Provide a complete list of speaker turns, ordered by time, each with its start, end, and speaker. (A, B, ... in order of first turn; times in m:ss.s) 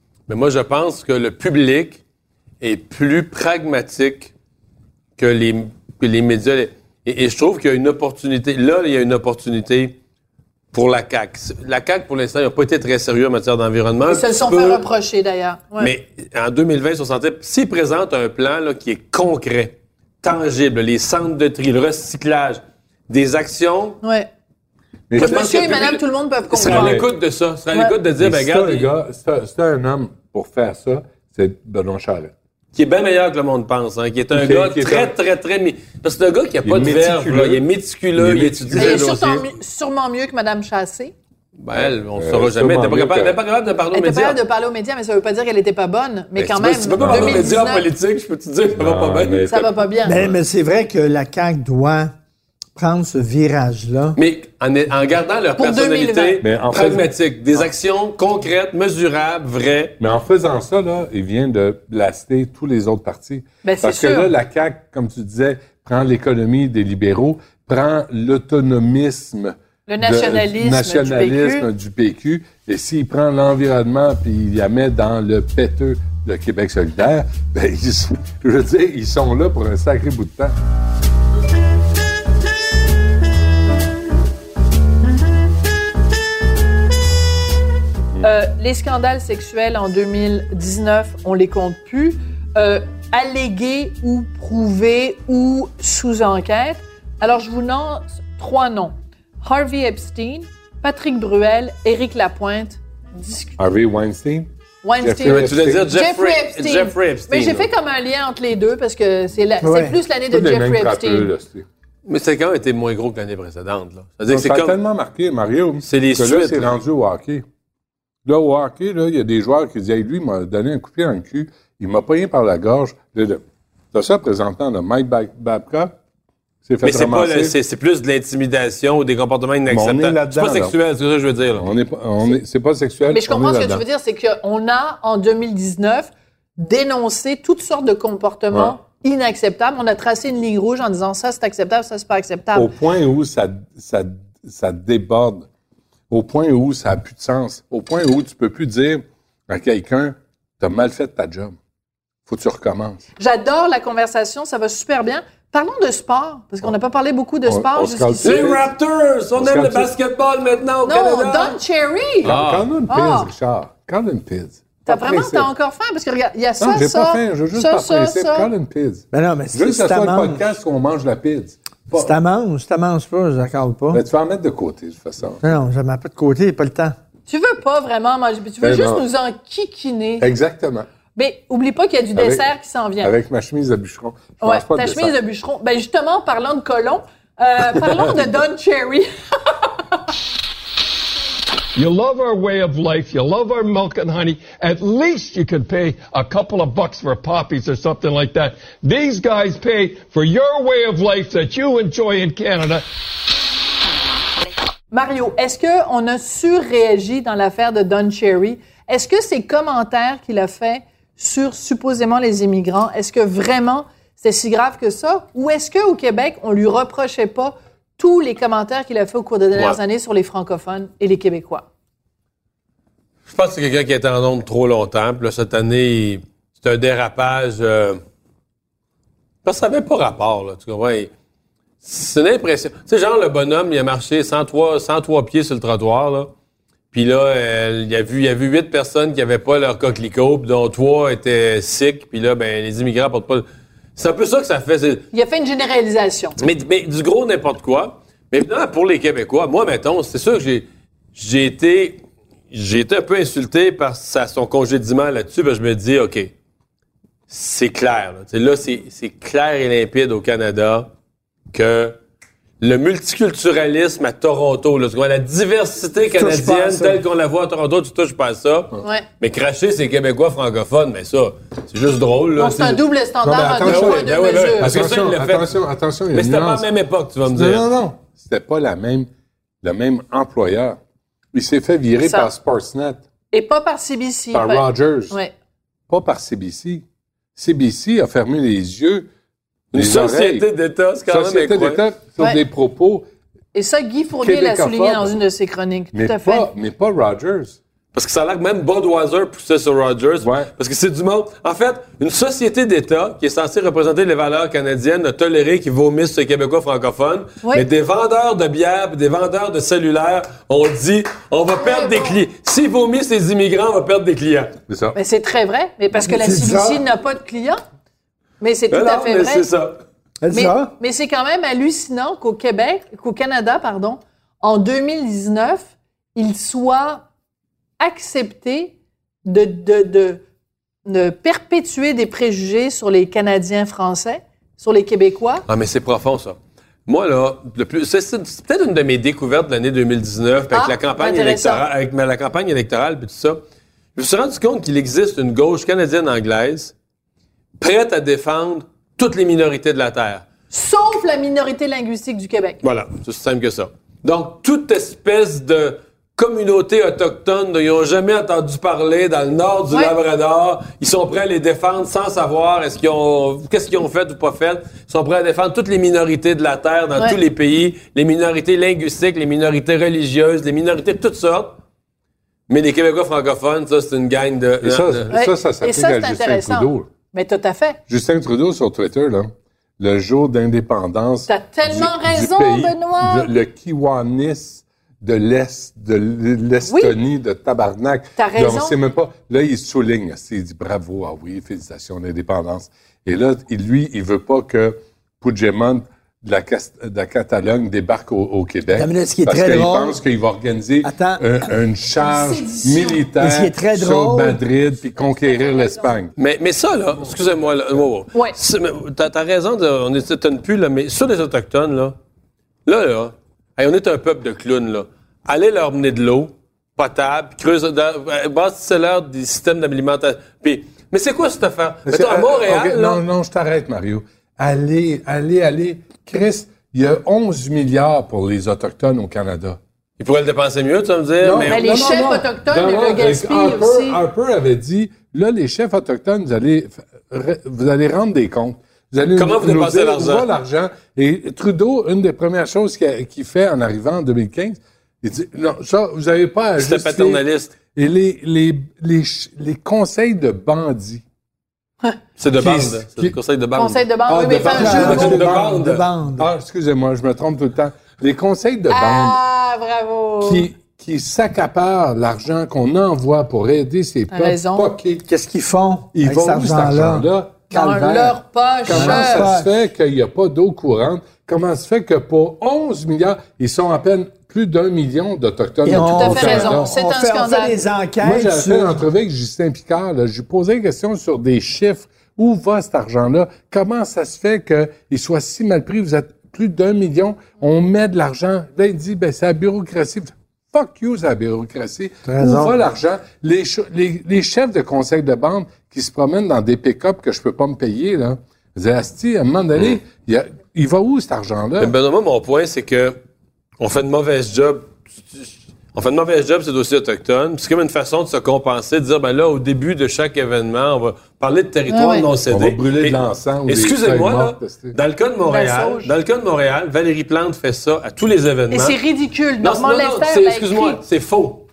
0:00.3-0:02.0 A
0:02.6-0:04.3 A
0:05.2-0:10.0 A
0:10.7-0:14.8 A
0:14.1-0:15.9 B
0:15.8-0:24.0 A
0:24.0-0:24.3 B
0:25.1-0:25.9 C
0:25.1-0:28.9 A
0:25.2-0:27.0 B
0:26.6-0:27.1 C
0:28.2-0:32.3 C
0:32.7-0:39.4 A
0:34.3-0:35.1 C
0:36.6-0:37.6 C
0:38.1-0:39.0 C
0:38.7-0:41.1 B
0:41.6-0:44.4 A
0:41.7-0:43.4 C
0:43.9-0:47.8 B
0:46.4-0:49.5 A
0:47.0-0:47.6 C
0:48.7-0:50.4 C
0:49.5-0:50.2 B
0:50.0-0:52.1 D
0:52.8-0:54.2 D
0:54.2-1:00.0 A
0:55.6-0:56.4 B
0:56.4-0:57.6 C
1:00.0-1:20.5 C
1:03.6-1:04.3 B
1:09.9-1:11.7 B
1:28.2-1:43.6 B
1:43.6-1:44.5 C
1:44.8-1:51.3 B
1:45.0-1:45.9 C
1:45.2-1:47.7 A
1:49.6-1:50.0 D
1:50.3-1:51.6 C
1:52.0-1:54.8 A
1:54.3-1:57.4 C
1:55.8-1:56.7 A
1:58.2-2:05.9 C
2:06.6-2:07.5 C
2:06.8-2:11.7 A
2:09.7-2:10.7 C
2:11.6-2:13.8 C
2:13.1-2:22.7 B
2:22.5-2:25.5 C
2:26.1-2:31.6 C
2:32.3-2:33.0 C
2:33.2-2:38.5 B
2:37.4-2:38.7 C
2:38.2-2:41.6 A
2:39.4-2:39.9 C
2:40.8-2:42.4 B
2:42.2-2:45.5 C
2:42.2-2:42.7 A
2:42.9-2:43.3 B
2:44.8-2:48.5 B
2:46.6-2:52.1 C
2:49.1-2:50.5 D
2:51.9-2:54.0 D
2:53.9-2:55.4 C
2:55.4-2:56.9 D
2:57.3-3:00.3 B
2:58.6-2:59.0 C
3:00.2-3:00.9 C
3:01.2-3:03.1 B
3:02.2-3:02.4 C
3:03.0-3:05.1 C
3:04.4-3:09.7 B
3:07.7-3:08.1 C
3:11.7-3:22.8 E
3:24.9-3:41.6 B
3:43.3-3:48.0 A
3:49.4-3:51.1 A
3:51.8-3:56.3 A
3:56.9-4:03.4 A
4:04.0-4:05.0 A
4:05.1-4:06.4 B
4:06.4-4:16.3 A
4:17.3-4:20.9 A
4:21.5-4:22.0 A
4:22.6-4:32.8 A
4:26.1-4:27.0 D
4:32.4-4:34.7 B
4:33.2-4:36.6 C
4:33.6-4:35.5 A
4:36.1-4:37.7 A
4:37.3-4:39.1 C
4:39.6-4:40.8 C
4:41.3-4:43.0 C
4:42.0-4:42.3 B
4:43.3-4:45.3 B
4:44.3-4:45.2 C
4:45.9-4:46.8 C
4:47.4-4:49.1 C
4:49.7-4:50.4 C
4:49.7-4:51.8 A
4:51.1-4:53.0 C
4:53.5-4:56.5 B
4:54.2-4:55.1 C
4:55.9-4:57.6 C
4:57.9-5:14.5 A
5:00.2-5:00.5 C
5:11.5-5:12.2 B
5:14.7-5:15.0 C
5:14.9-5:17.6 B
5:16.0-5:16.8 D
5:18.4-5:19.5 B
5:18.7-5:19.8 A
5:20.2-5:20.7 D
5:20.3-5:27.0 B
5:27.8-5:28.7 B
5:29.2-5:30.2 B
5:30.8-5:35.4 B
5:35.5-5:43.4 A
5:40.5-5:41.6 B
5:44.0-5:46.7 A
5:47.6-5:50.2 A
5:50.5-5:52.6 B
5:52.6-6:11.6 A
6:12.5-6:15.1 A
6:14.6-6:16.9 C
6:15.1-6:17.8 B
6:17.9-6:46.1 C
6:21.3-6:23.3 B
6:26.7-6:27.0 B
6:28.2-6:28.8 B
6:38.7-6:40.0 D
6:40.8-6:41.2 D
6:42.0-6:43.0 B
6:43.2-6:44.4 D
6:45.2-6:45.9 B
6:46.2-6:51.9 A
6:52.6-7:03.0 A
7:01.9-7:09.6 C
7:10.0-7:12.0 A
7:11.2-7:31.0 C
7:11.5-7:14.0 B
7:19.1-7:20.3 A
7:26.6-7:27.6 A
7:32.2-7:35.8 A
7:32.3-7:33.2 C
7:33.6-7:35.2 B
7:34.1-7:39.2 C
7:34.4-7:36.3 D
7:38.7-7:40.4 B
7:40.2-7:45.0 C
7:44.1-7:44.7 B
7:45.1-7:47.1 D
7:45.9-7:56.7 C
7:47.5-7:49.3 B
7:48.7-7:49.5 D
7:55.6-7:58.8 D
7:55.7-7:57.6 B
7:58.0-8:21.7 C
8:12.0-8:12.6 D
8:21.6-8:23.0 A
8:23.6-8:38.8 A
8:31.7-8:32.1 B
8:32.3-8:34.8 C
8:35.3-8:35.9 B
8:38.5-8:40.8 B
8:39.4-8:41.4 A